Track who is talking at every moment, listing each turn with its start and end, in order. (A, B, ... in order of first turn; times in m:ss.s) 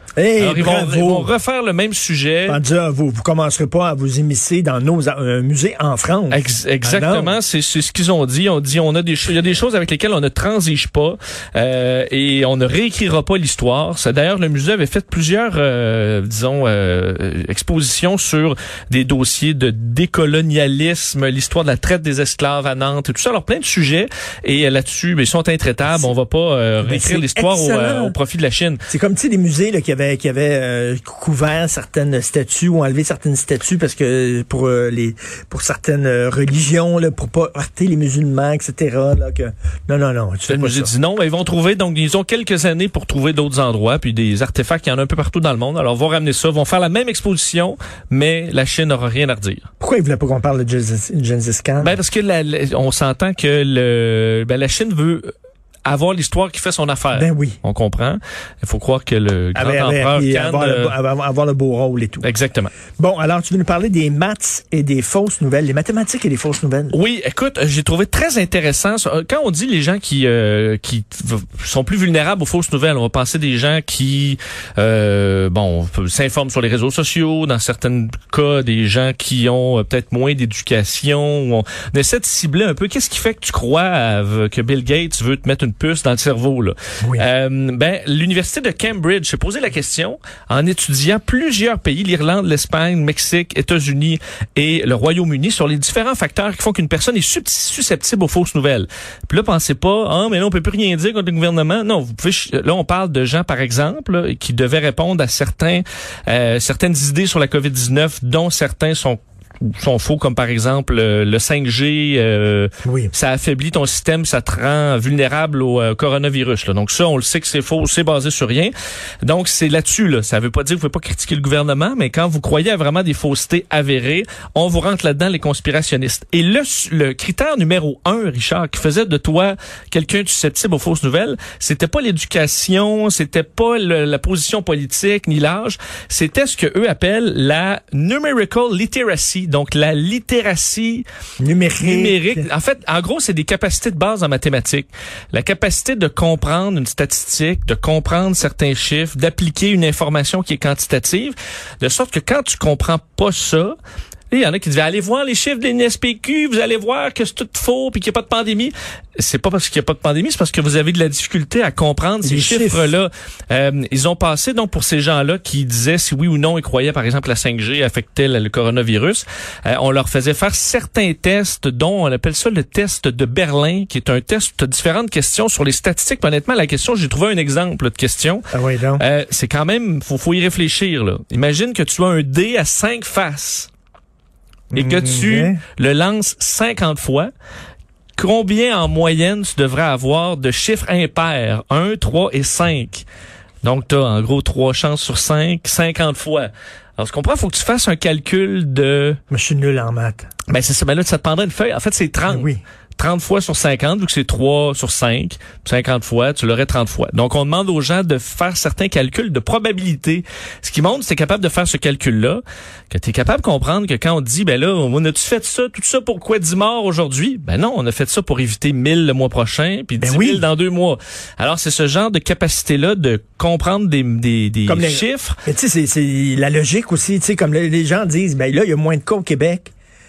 0:00.2-0:01.3 A
0:00.4-0:02.6 B
0:02.5-0:07.4 A
0:06.3-0:28.8 B
0:26.8-0:28.2 A
0:28.9-0:40.9 A
0:40.5-0:49.6 B
0:49.8-0:51.9 A
0:51.8-0:55.3 B
0:55.8-1:00.9 B
0:57.1-0:57.6 A
0:59.5-1:02.2 A
1:02.2-1:02.7 B
1:03.0-1:07.0 A
1:06.9-1:58.7 B
1:52.8-1:53.1 A
1:59.2-2:21.0 B
2:21.4-2:22.4 A
2:21.8-2:33.8 B
2:34.3-2:58.4 B
2:42.2-2:42.9 A
2:58.5-2:59.0 A
2:59.0-3:03.7 B
3:04.7-3:05.6 A
3:04.7-3:07.3 B
3:08.2-3:13.0 B
3:13.6-3:19.2 B
3:19.3-3:20.3 A
3:20.5-3:45.4 B
3:22.3-3:22.6 A
3:40.0-3:40.5 A
3:44.7-3:49.7 A